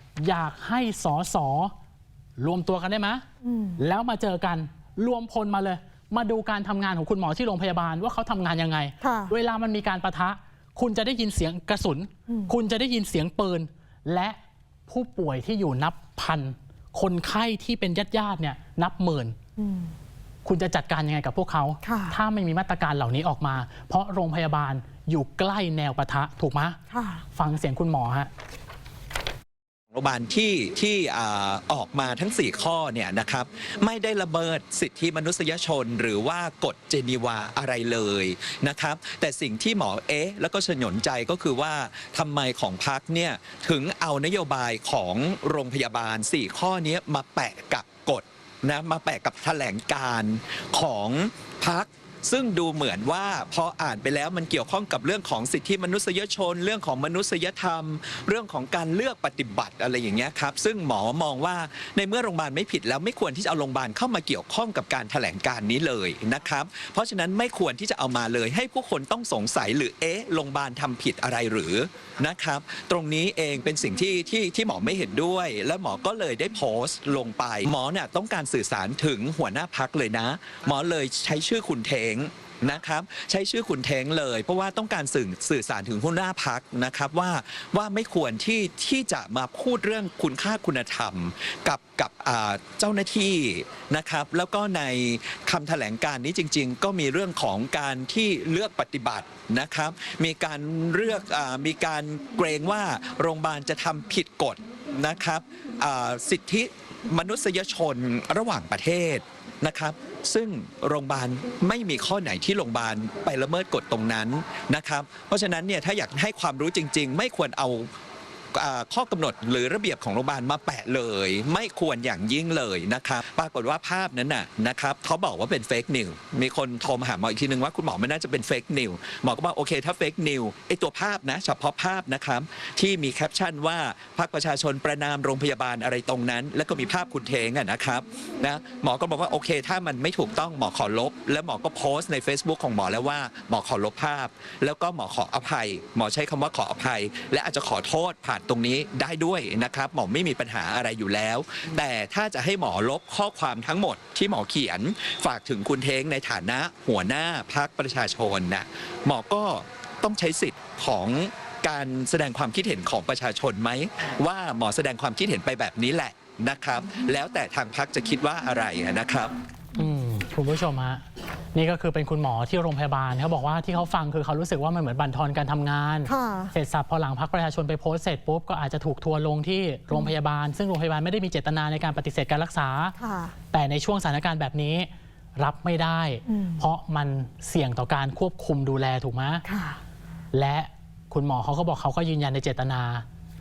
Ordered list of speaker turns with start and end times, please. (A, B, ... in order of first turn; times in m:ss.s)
0:00.2-0:01.7 A
0:02.4-0:03.2 A
0:03.4-0:03.8 B
0:03.8-0:14.4 A
0:09.0-0:09.3 B
0:14.9-0:19.4 A
0:19.6-0:19.9 B
0:20.4-0:26.8 A
0:21.8-0:22.1 B
0:26.9-0:27.2 B
0:27.3-0:28.3 A
0:29.9-1:57.9 C
1:58.5-2:49.3 C
2:49.8-3:02.9 A
2:56.0-2:56.5 B
3:03.0-3:03.3 B
3:03.5-3:09.4 A
3:06.3-3:06.6 B
3:09.4-3:09.8 B
3:10.3-3:13.0 A